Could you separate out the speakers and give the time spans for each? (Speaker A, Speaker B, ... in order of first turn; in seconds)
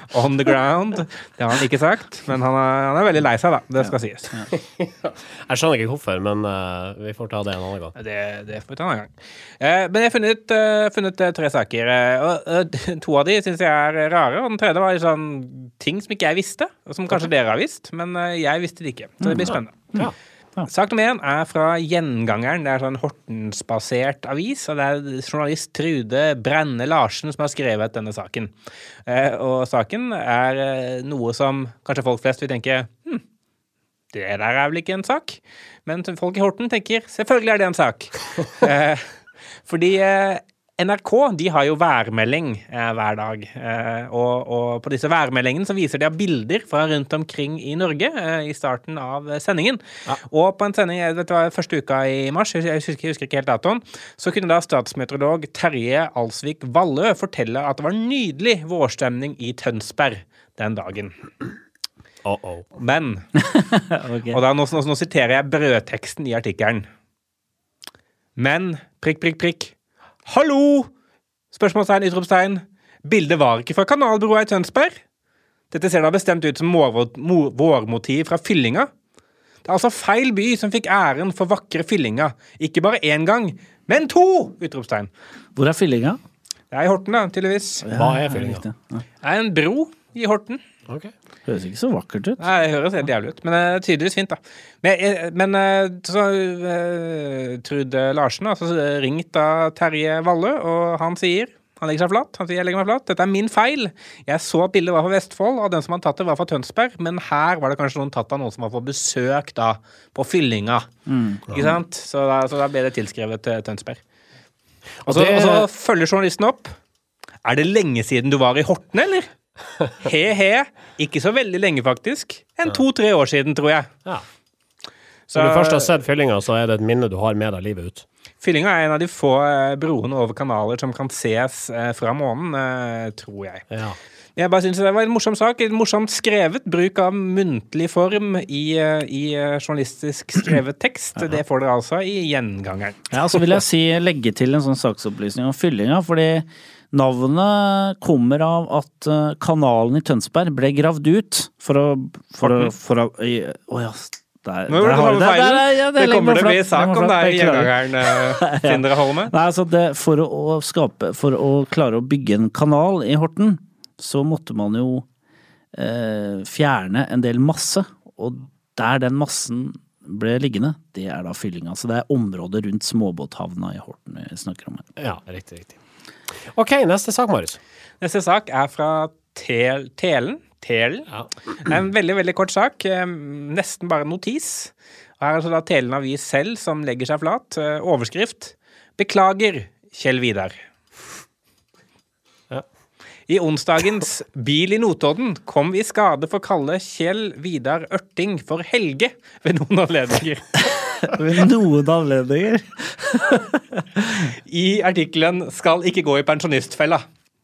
Speaker A: 0.1-4.3, 8.0-19.9, 20.7-28.5, 29.1-33.2, 34.1-39.1, 39.7-61.1, 62.8-63.2, 64.3-66.9, 68.4-69.7, 70.3-70.9, 71.5-75.0, 75.7-78.9, 79.7-85.1, 86.7-87.9, 89.2-90.6, 92.4-110.9, 111.5-114.0, 115.1-116.7, 117.5-119.3, 119.9-123.9, 125.3-125.9, 128.4-133.7, 134.4-143.1, 152.4-152.7, 154.7-159.3, 178.0-190.6, 193.3-201.2, 204.5-207.1
Speaker B: 4.5-8.0, 62.2-62.7, 87.9-88.7, 115.0-115.7, 125.3-128.1, 133.7-134.0, 175.0-175.8, 176.4-177.6
Speaker C: 19.2-20.7, 63.5-64.4, 85.6-86.2, 87.8-89.0, 91.5-92.4, 111.1-111.5, 143.1-165.1, 165.7-174.9, 201.1-204.3